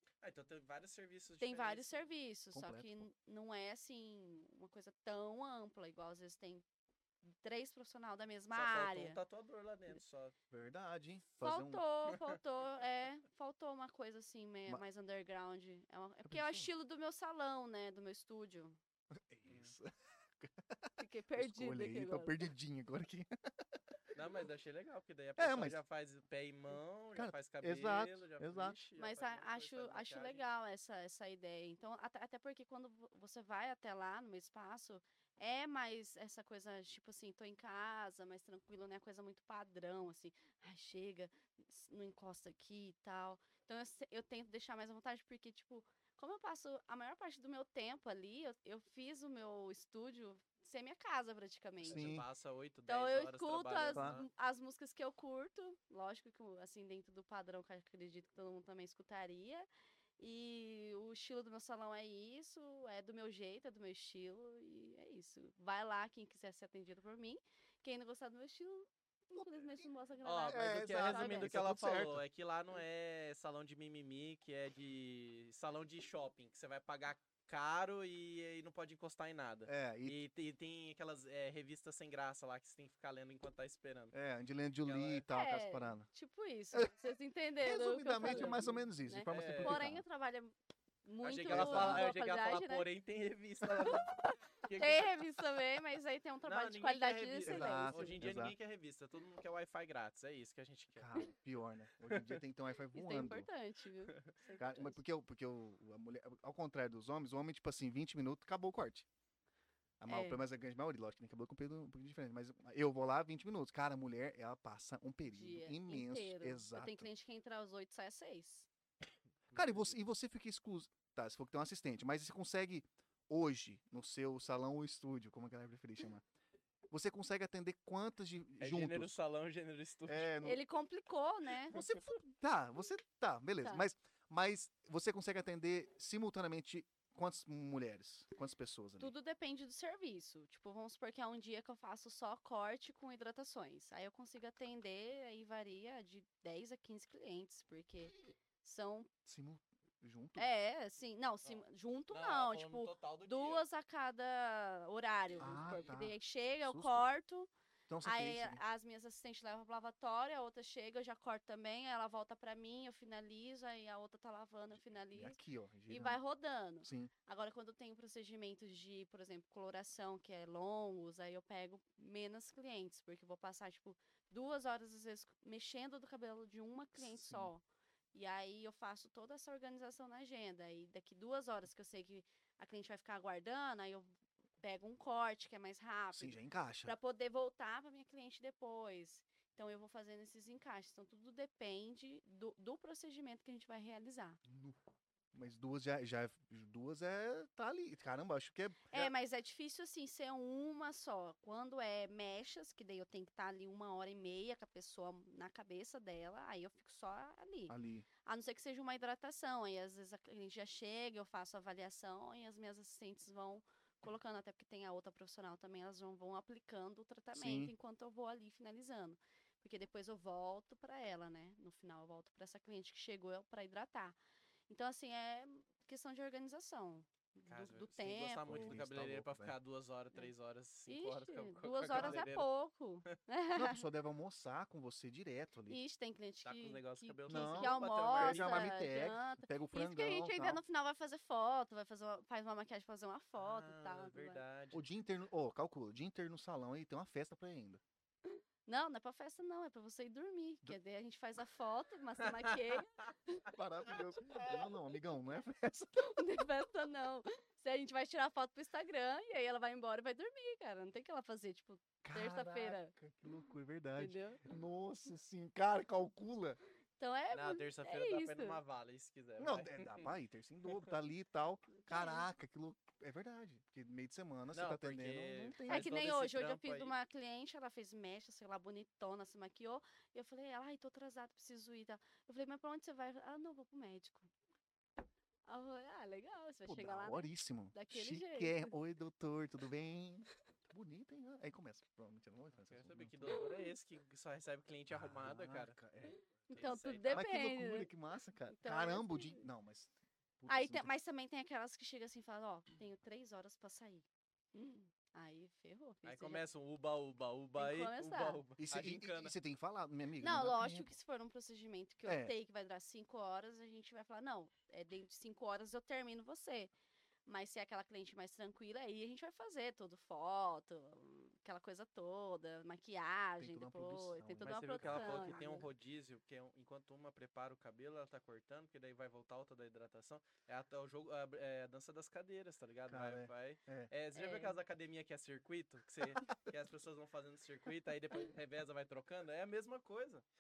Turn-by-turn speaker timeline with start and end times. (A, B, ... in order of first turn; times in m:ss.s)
0:00.2-0:02.0 A
0:01.4-0:06.6 B
0:02.5-0:03.1 C
0:07.2-0:09.2 B
0:08.5-0:10.3 A
0:10.5-0:11.8 C
0:11.4-0:18.8 B
0:16.2-0:16.7 C
0:19.1-0:23.8 C
0:19.5-0:19.7 A
0:21.0-0:22.5 B
0:24.1-0:30.4 A
0:25.4-0:25.8 C
0:27.2-0:28.8 C
0:29.0-0:52.1 B
0:51.8-0:54.3 A
0:51.9-0:52.3 C
0:52.9-0:59.7 B
0:53.9-0:54.2 C
1:00.2-1:11.6 B
1:09.4-1:09.8 C
1:10.2-1:24.1 A
1:10.5-1:12.2 C
1:19.7-1:20.2 C
1:24.1-1:26.1 C
1:24.8-1:25.2 A
1:25.3-1:32.9 B
1:27.6-1:30.0 C
1:28.2-1:28.6 A
1:29.3-1:29.8 A
1:31.2-1:35.2 A
1:31.5-1:32.1 C
1:33.8-1:38.2 B
1:36.4-1:41.1 A
1:37.4-1:38.5 C
1:41.0-1:43.5 C
1:42.1-1:42.4 A
1:42.9-1:45.0 B
1:44.6-1:49.1 C
1:50.0-1:57.1 C
1:50.1-1:50.4 B
1:55.3-1:58.7 B
1:59.5-2:00.0 A
1:59.5-2:06.2 C
2:06.9-2:09.1 C
2:08.6-2:10.3 A
2:10.1-2:10.6 C
2:10.4-2:11.8 B
2:11.7-2:19.1 C
2:19.0-2:29.1 B
2:29.3-2:30.5 C
2:30.4-2:37.5 B
2:31.4-2:33.6 A
2:35.4-2:37.0 C
2:37.9-2:38.6 C
2:38.0-3:14.4 B
2:45.1-2:46.2 C
2:46.8-2:47.1 C
2:57.0-2:57.5 C
3:06.1-3:07.0 C
3:14.5-3:14.8 C
3:15.3-3:19.1 C
3:18.9-3:44.2 B
3:27.7-3:28.1 C
3:37.3-3:37.7 C
3:44.7-3:48.8 B
3:47.5-3:52.5 A
3:48.5-3:49.6 C
3:50.9-3:53.8 B
3:51.9-3:52.3 C
3:53.6-3:55.8 C
3:55.7-4:04.4 B
3:56.4-3:58.7 A
3:57.3-4:00.6 C
4:03.4-4:04.8 A
4:04.7-4:07.8 C
4:08.7-4:13.5 B
4:12.2-4:12.6 A
4:13.5-4:16.2 C
4:16.0-4:22.9 B
4:22.0-4:26.6 C
4:24.0-4:24.4 B
4:27.0-4:28.6 B
4:27.3-4:30.2 A
4:29.4-4:35.9 C
4:31.8-4:32.3 B
4:34.5-4:36.9 A
4:35.7-4:44.3 B
4:45.5-4:48.7 B
4:46.7-4:53.4 C
4:52.6-4:55.8 A
4:54.9-5:00.9 C
4:56.1-4:57.9 B
4:56.5-4:57.2 A
4:58.5-4:59.4 B
5:00.5-5:06.4 B
5:06.0-5:09.4 A
5:07.6-5:08.4 B
5:08.6-5:11.0 C
5:10.2-5:16.7 B
5:12.1-5:12.3 C
5:17.3-5:25.7 B
5:23.4-5:25.5 C
5:24.4-5:40.2 A
5:32.9-5:33.9 C
5:34.1-5:34.6 B